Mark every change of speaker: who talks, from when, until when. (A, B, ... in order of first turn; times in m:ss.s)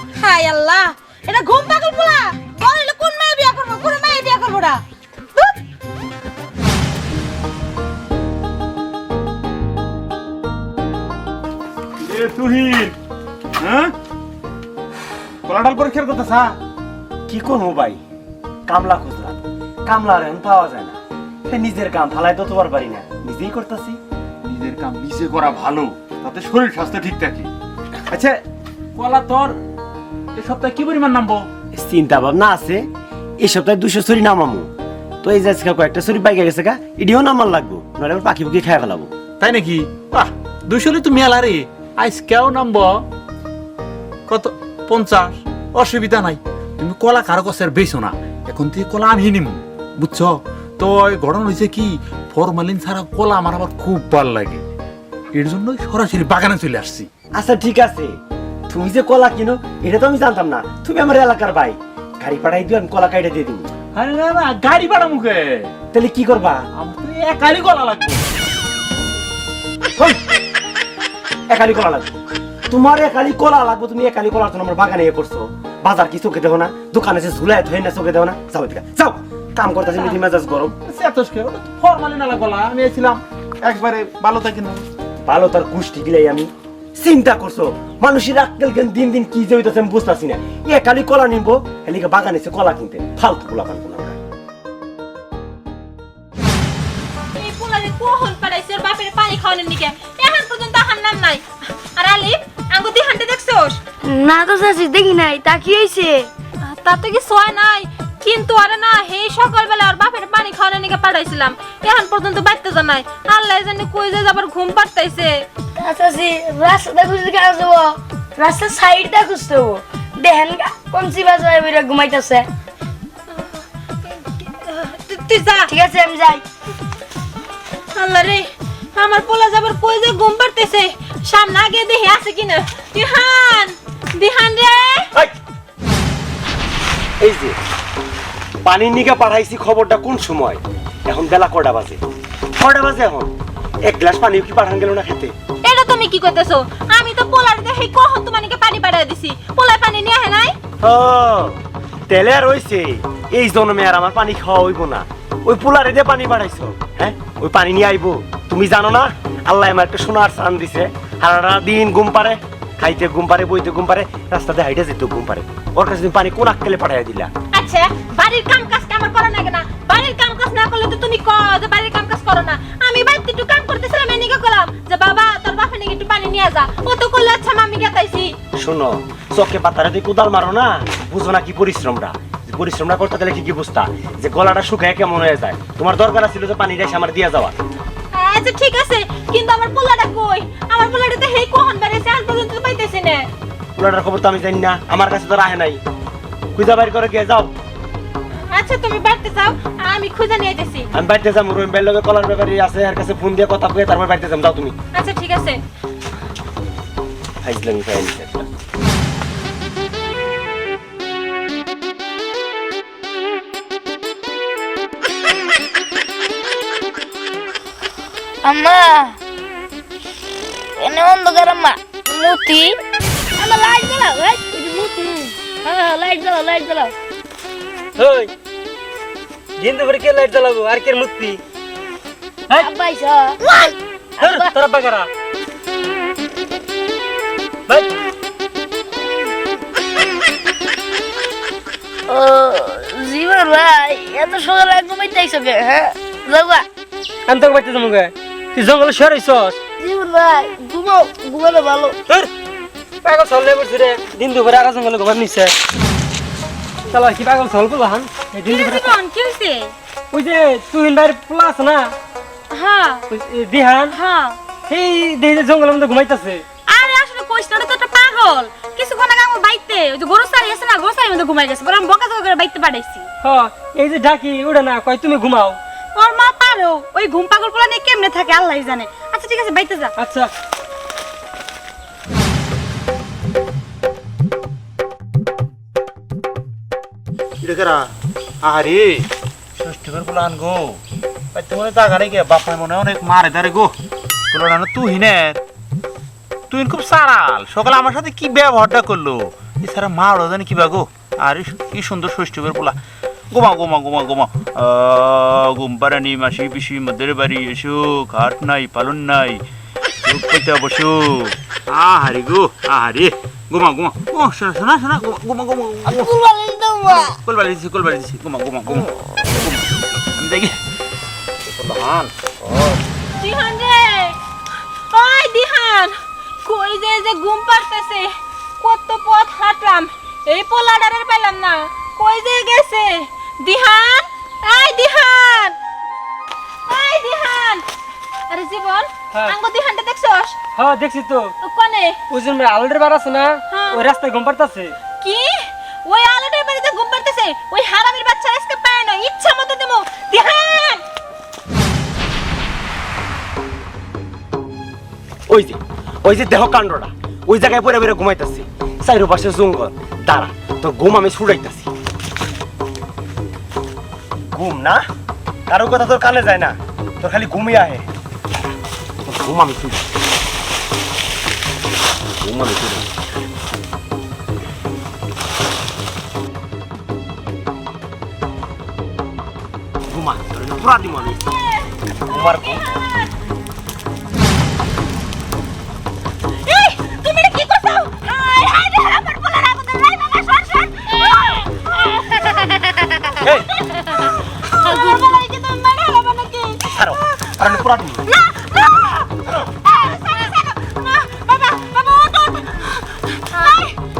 0:00.1-0:04.8 A
0:12.0-0:13.0 B
0:13.6-0:13.9 B
0:15.5-0:16.6 B
0:17.3-0:18.0 C
0:18.7-0:21.0 C
0:21.5-0:24.0 C
0:24.4-0:27.5 B
0:28.1-0:28.4 C
0:29.0-0:29.6 B
0:30.4-0:31.5 B
0:31.7-0:32.8 C
0:33.4-0:34.7 C
0:35.2-0:39.1 C
0:39.4-0:42.9 B
0:44.3-0:54.6 B
0:55.3-0:57.1 B
0:57.4-0:58.1 C
0:58.7-1:03.7 C
1:04.0-1:05.7 B
1:05.9-1:06.7 C
1:06.8-1:08.2 B
1:10.0-1:10.2 C
1:11.5-1:12.2 C
1:12.7-1:20.8 C
1:20.8-1:24.8 B
1:25.2-1:34.2 C
1:37.3-1:41.4 A
1:42.0-1:43.8 A
1:44.1-1:46.3 D
1:46.6-1:55.5 A
1:55.8-2:02.5 D
2:03.3-2:05.7 A
2:05.7-2:06.4 D
2:07.9-2:15.1 A
2:17.2-2:17.6 C
2:18.6-2:22.0 C
2:22.6-2:23.3 C
2:23.9-2:25.3 C
2:25.6-2:30.6 A
2:30.8-2:47.3 C
2:47.5-2:58.4 A
2:58.6-3:07.6 C
3:08.1-3:13.3 A
3:13.8-3:15.8 C
3:16.6-3:17.5 C
3:18.3-3:20.9 A
3:20.9-3:24.7 C
3:24.9-3:25.6 A
3:27.4-3:28.5 C
3:38.4-3:39.1 D
3:40.8-3:42.8 D
3:43.4-3:46.9 D
3:48.0-3:48.3 E
3:49.6-3:51.4 E
3:52.6-3:53.7 D
3:54.2-3:55.1 E
4:02.1-4:06.6 D
4:07.3-4:09.6 E
4:09.9-4:11.9 D
4:13.0-4:15.5 E
4:16.9-4:19.0 E
4:18.4-4:19.7 A
4:20.1-4:21.9 E
4:22.5-4:23.1 A
4:23.1-4:24.0 E
4:23.9-4:24.4 A
4:24.7-4:26.4 E
4:26.7-4:33.1 A
4:33.2-4:35.6 E
4:36.0-4:39.9 A
4:40.0-4:40.3 E
4:47.4-4:47.9 B
4:48.4-4:50.8 B
4:51.3-4:53.7 B
4:54.3-4:55.4 B
4:56.5-5:02.8 B
5:03.3-5:09.4 B
5:10.0-5:16.2 B
5:16.0-5:16.7 D
5:16.9-5:20.6 B
5:21.4-5:22.6 B
5:23.2-5:24.2 A
5:24.9-5:28.1 A
5:28.6-5:35.6 A
5:36.7-5:37.7 A
5:38.3-5:40.4 A
5:40.6-5:41.3 E
5:41.4-5:42.0 A
5:42.1-5:44.8 E
5:43.5-5:43.9 A
5:45.0-5:50.8 A
5:55.3-6:01.7 C
6:04.3-6:04.8 C
6:05.5-6:08.6 C
6:09.1-6:09.9 C
6:12.2-6:13.1 C
6:19.9-6:21.2 C
6:21.2-6:23.1 A
6:22.1-6:22.6 C
6:26.4-6:36.6 A
6:33.2-6:33.5 C
6:36.7-6:38.0 C
6:38.0-6:43.8 A